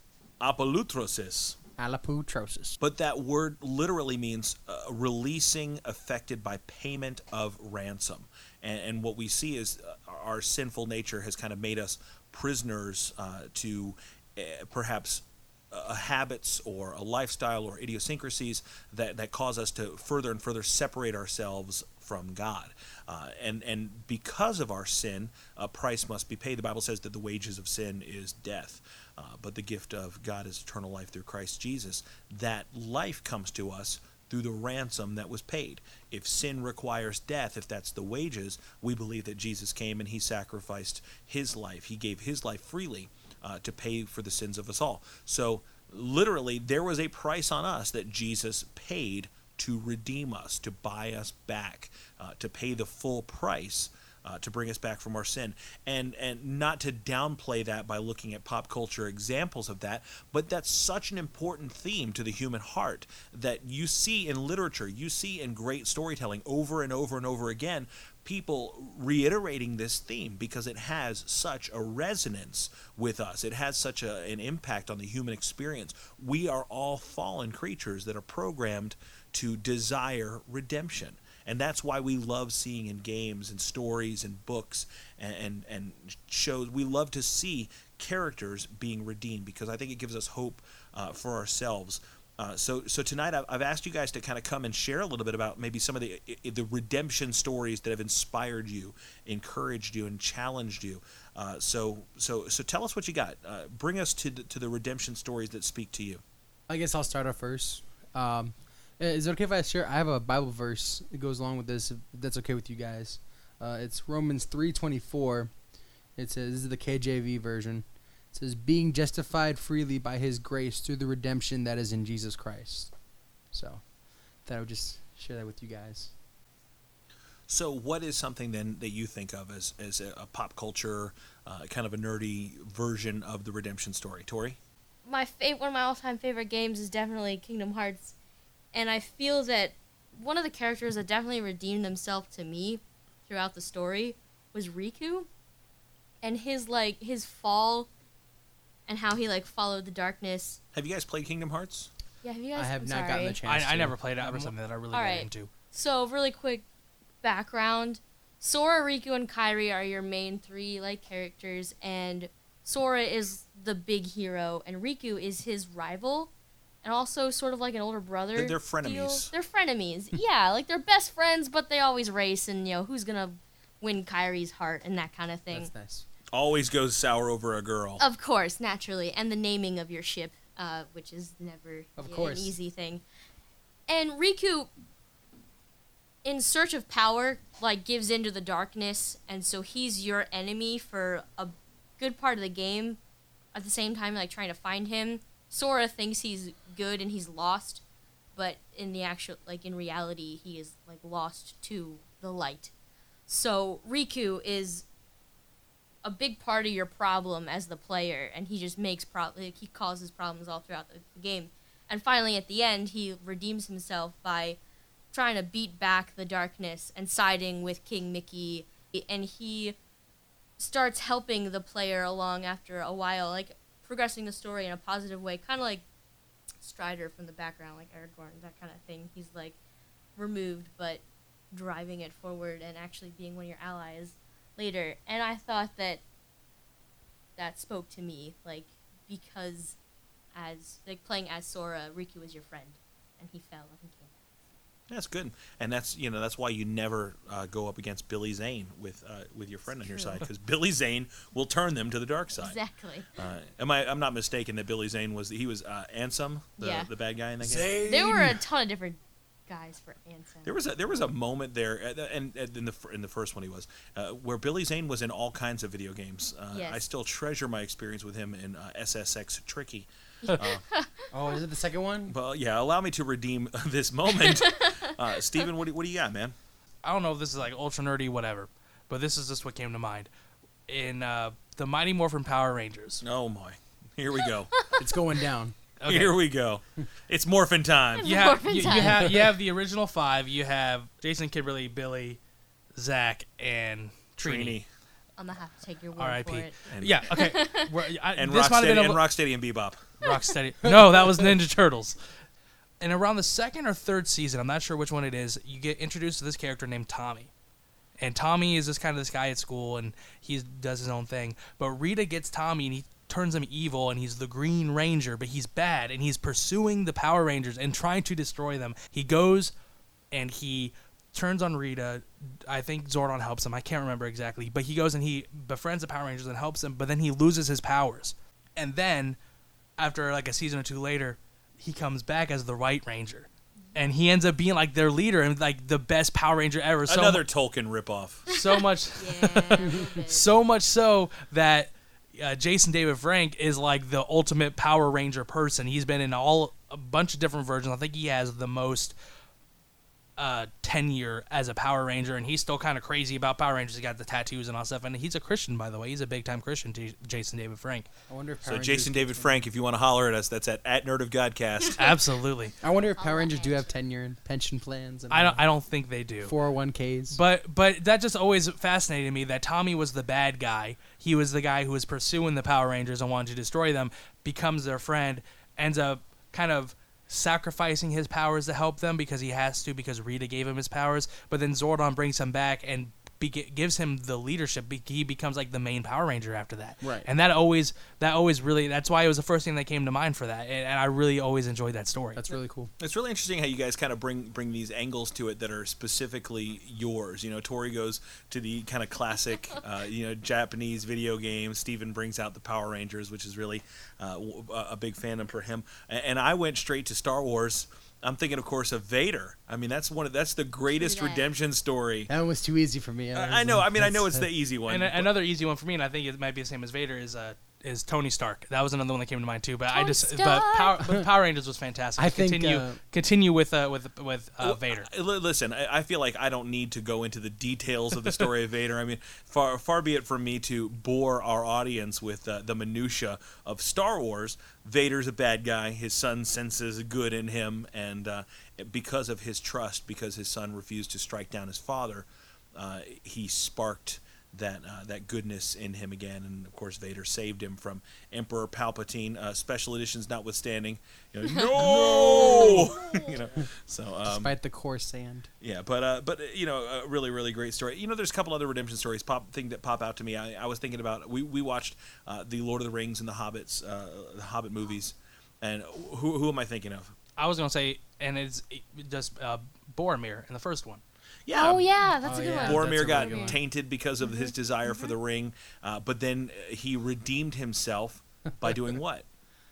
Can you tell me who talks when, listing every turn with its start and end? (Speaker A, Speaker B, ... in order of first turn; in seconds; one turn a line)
Speaker A: 0.4-1.6
Speaker B: 1.8-2.8
Speaker A: 2.8-106.2
Speaker B: 106.7-115.5
Speaker B: 116.2-122.9
Speaker B: 123.5-123.8
Speaker B: 124.5-126.1
Speaker A: 127.5-134.6
Speaker C: 135.1-138.2
Speaker C: 138.7-145.3
Speaker C: 146.2-147.9
Speaker C: 148.9-150.6
Speaker A: 150.7-151.9
Speaker C: 152.2-153.4
Speaker B: 152.6-154.5
Speaker D: 153.4-155.5
Speaker C: 154.9-156.7
Speaker C: 157.2-166.3
Speaker C: 166.8-175.7
Speaker A: 168.4-169.3
Speaker B: 175.5-176.1
Speaker A: 176.3-178.0
Speaker C: 178.0-183.0
Speaker B: 182.0-182.5
Speaker C: 183.9-184.7
Speaker C: 186.2-193.0
Speaker C: 193.5-197.8
Speaker C: 198.3-202.7
Speaker C: 203.3-204.9
Speaker C: 206.0-214.6
Speaker C: 215.1-219.8
Speaker C: 220.6-225.8
Speaker C: 226.6-229.6
Speaker C: 230.2-236.0
Speaker C: 237.4-239.8
Speaker C: 240.3-244.1
Speaker A: 244.9-252.6
Speaker C: 249.9-250.2
Speaker C: 252.4-253.1
Speaker A: 253.2-257.9
Speaker C: 256.6-256.9
Speaker B: 257.4-258.4
Speaker C: 257.8-260.6
Speaker A: 260.4-270.6
Speaker C: 266.5-266.8
Speaker C: 270.2-271.1
Speaker B: 271.1-272.1
Speaker A: 272.1-276.4
Speaker C: 274.2-274.9
Speaker D: 276.8-280.1
Speaker D: 280.7-283.0
Speaker A: 283.0-284.6
Speaker B: 284.8-285.6
Speaker D: 285.8-286.2
Speaker A: 285.9-288.3
Speaker C: 288.0-289.1
Speaker D: 288.0-292.2
Speaker B: 288.6-289.3
Speaker D: 292.8-294.6
Speaker A: 294.2-294.7
Speaker C: 295.2-297.7
Speaker D: 296.0-299.1
Speaker A: 296.7-297.1
Speaker A: 298.1-299.9
Speaker D: 300.0-302.0
Speaker B: 300.6-301.3
Speaker D: 302.8-307.3
Speaker D: 308.0-319.5
Speaker D: 320.1-329.2
Speaker D: 329.8-337.2
Speaker A: 336.9-338.3
Speaker D: 338.3-348.9
Speaker C: 338.3-340.3
Speaker D: 350.2-357.9
Speaker B: 358.1-359.4
Speaker A: 358.5-361.9
Speaker D: 361.8-362.6
Speaker B: 362.6-365.4
Speaker C: 362.9-363.7
Speaker D: 365.1-366.3
Speaker B: 366.2-367.2
Speaker D: 367.1-392.2
Speaker B: 386.8-387.1
Speaker B: 392.1-392.7
Speaker A: 392.8-412.1
Speaker C: 410.7-411.3
Speaker B: 412.1-414.3
Speaker A: 413.1-415.1
Speaker D: 414.7-424.9
Speaker C: 419.7-420.9
Speaker B: 422.0-422.8
Speaker A: 424.4-454.3
Speaker B: 451.6-452.8
Speaker C: 452.1-453.0
Speaker B: 454.0-455.3
Speaker A: 455.4-466.9
Speaker D: 467.2-470.8
Speaker A: 471.3-471.7
Speaker C: 471.3-473.4
Speaker B: 472.0-473.4
Speaker A: 472.3-479.1
Speaker C: 474.0-474.9